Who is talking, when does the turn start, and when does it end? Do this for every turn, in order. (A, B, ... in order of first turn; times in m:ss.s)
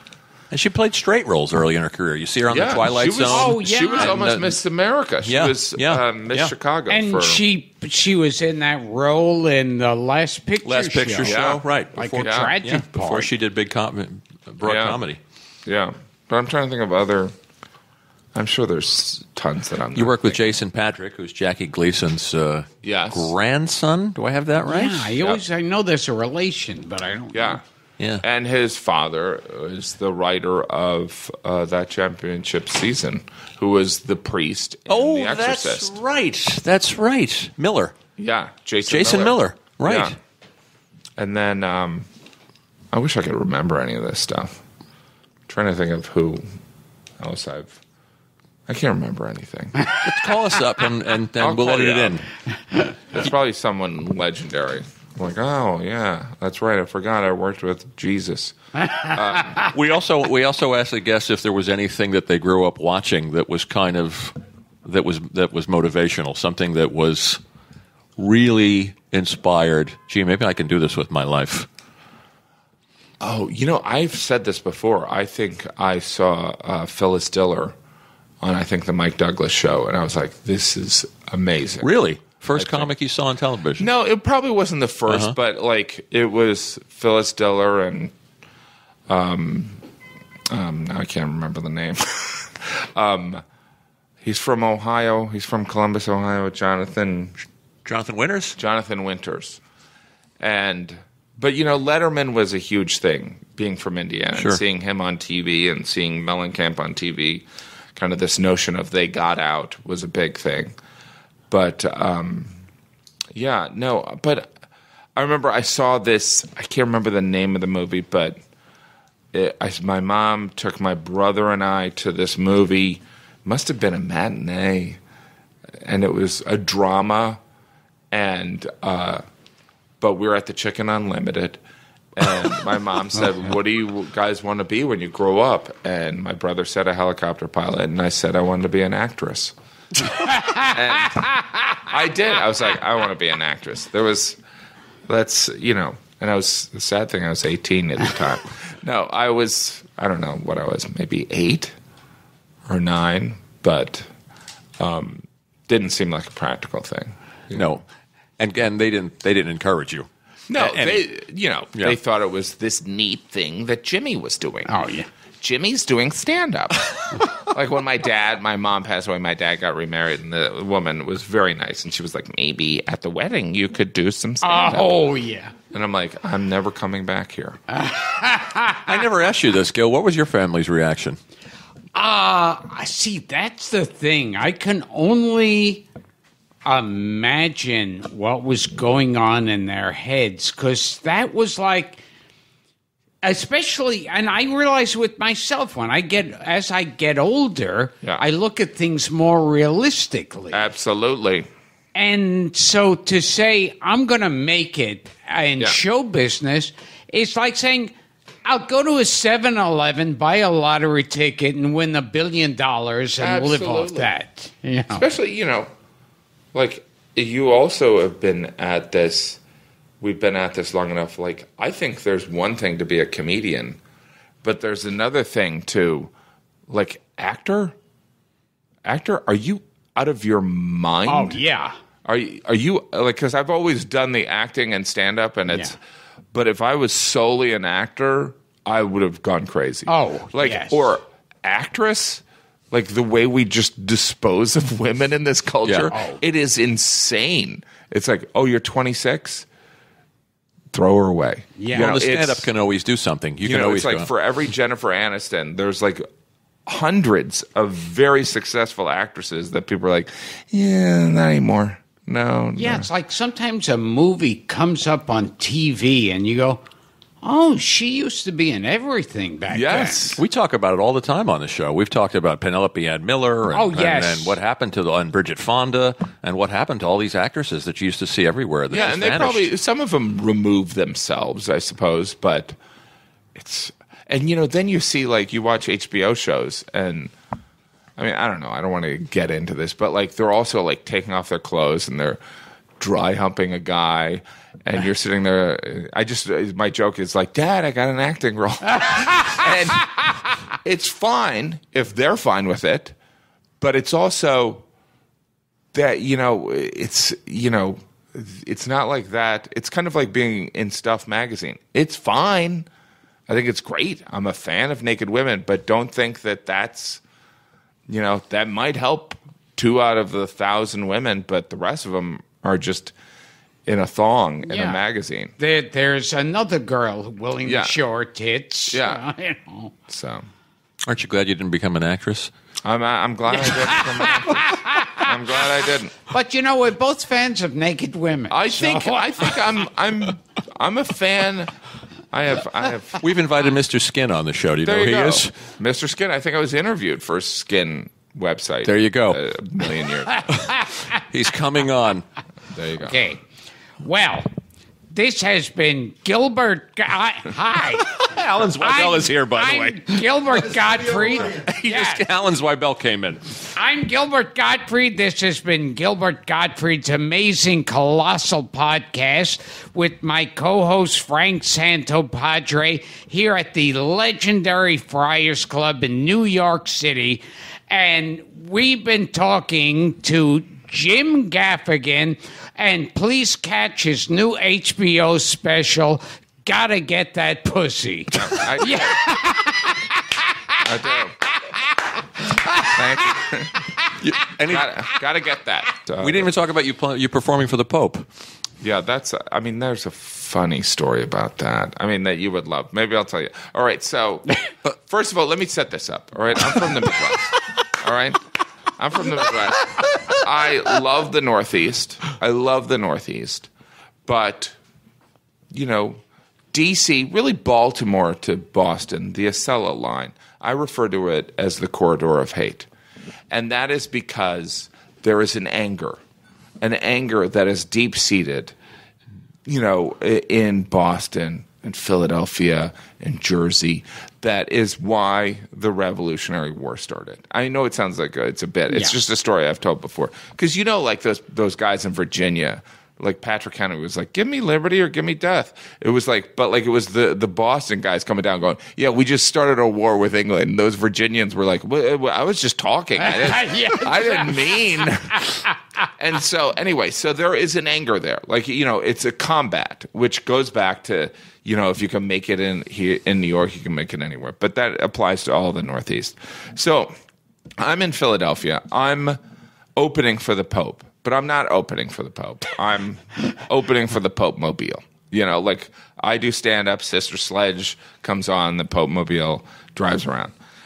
0:00.5-0:04.6 A
0:02.5-0:07.4 B
0:03.3-0:04.2 C
0:05.2-0:06.5 A
0:06.9-0:11.4 C
0:10.6-0:15.2 A
0:11.2-0:11.6 B
0:11.9-0:13.3 C
0:12.2-0:12.5 B
0:14.6-0:15.0 B
0:15.6-0:17.3 B
0:18.3-0:20.6 B
0:19.9-0:25.1 A
0:22.8-0:23.3 B
0:24.6-0:27.6 C
0:27.3-0:27.6 B
0:28.2-0:36.0 B
0:34.9-0:38.0 A
0:38.2-0:40.2 B
0:38.9-0:40.1 A
0:41.2-0:42.1 B
0:42.9-0:44.6 B
0:45.5-0:46.4 B
0:47.2-0:47.8 B
0:48.7-0:49.8 B
0:50.0-0:52.3 A
0:51.4-0:52.2 B
0:53.1-0:59.7 B
0:59.6-1:07.4 A
1:08.2-1:11.7 A
1:13.2-1:17.7 B
1:18.4-1:22.0 B
1:21.8-1:23.9 A
1:22.5-1:22.9 B
1:23.8-1:28.1 B
1:25.1-1:25.3 A
1:29.1-1:29.8 B
1:30.5-1:33.4 B
1:34.2-1:37.3 B
1:37.8-1:38.6 A
1:38.6-1:39.6 B
1:40.4-1:50.8 B
1:44.3-1:44.6 A
1:51.5-1:52.6 B
1:53.3-1:54.5 B
1:55.2-1:58.4 B
1:59.3-2:05.0 B
2:05.8-2:07.4 B
2:08.1-2:09.2 B
2:10.0-2:11.6 B
2:12.1-2:19.5 B
2:20.2-2:21.5 C
2:20.3-2:24.4 B
2:25.1-2:31.7 B
2:32.7-2:34.1 B
2:34.8-2:37.7 B
2:37.5-2:37.8 A
2:38.4-2:41.0 A
2:40.5-2:44.8 B
2:44.7-2:45.1 C
2:45.4-2:55.0 B
2:54.4-2:55.5 C
2:55.7-2:57.6 B
2:57.7-2:59.0 C
2:58.8-3:01.2 A
3:01.9-3:05.9 C
3:06.6-3:12.0 C
3:13.2-3:20.6 C
3:20.5-3:21.5 B
3:21.9-3:27.9 C
3:28.4-3:35.0 C
3:33.2-3:34.1 B
3:34.9-3:35.7 B
3:36.5-3:39.4 B
3:40.0-3:43.8 B
3:44.4-3:46.1 B
3:46.7-3:47.8 B
3:48.8-3:51.4 B
3:51.1-3:51.8 C
3:52.0-3:55.8 B
3:55.5-3:55.8 C
3:56.3-4:09.5 B
3:59.9-4:00.9 C
4:05.6-4:05.9 A
4:05.9-4:06.2 C
4:10.7-4:12.5 B
4:11.6-4:11.9 C
4:11.7-4:14.1 A
4:13.4-4:16.0 B
4:16.6-4:22.9 B
4:22.6-4:26.6 C
4:27.2-4:30.2 C
4:29.5-4:30.2 B
4:30.2-4:39.5 A
4:33.5-4:34.4 C
4:38.7-4:42.6 B
4:43.3-4:47.1 B
4:48.0-4:52.2 B
4:52.8-5:03.0 B
5:03.6-5:04.6 B
5:05.7-5:12.7 B
5:13.3-5:17.0 B
5:17.9-5:22.9 B
5:23.6-5:25.3 B
5:24.4-5:24.8 C
5:25.4-5:29.7 C
5:27.4-5:27.8 B
5:28.7-5:29.0 B
5:29.9-5:30.3 B
5:30.9-5:32.3 A
5:32.6-5:35.9 B
5:33.3-5:35.1 C
5:36.1-5:39.4 C
5:38.3-5:41.5 B
5:42.1-5:43.0 B
5:43.0-5:45.3 A
5:44.6-5:50.4 B
5:48.6-5:49.2 A
5:50.2-5:50.6 C
5:50.4-5:52.0 A
5:52.5-5:53.0 B
5:52.7-5:53.2 C
5:53.8-5:54.3 C
5:54.9-6:02.0 C
5:57.8-6:03.3 A
6:03.5-6:30.6 C
6:28.1-6:29.1 B
6:30.6-6:31.2 B
6:32.5-6:32.8 C
6:32.6-6:33.7 B
6:34.0-6:34.8 A
6:34.5-6:36.3 B
6:36.0-6:38.0 A
6:38.6-6:48.2 B
6:48.8-6:53.5 B
6:54.0-6:54.6 B
6:55.5-6:56.0 B
6:56.5-7:02.7 B
7:03.3-7:06.0 B
7:06.6-7:08.5 B
7:09.4-7:46.9 B
7:18.7-7:19.0 C
7:33.0-7:35.4 C
7:47.6-7:49.2 B
7:49.8-8:00.3 B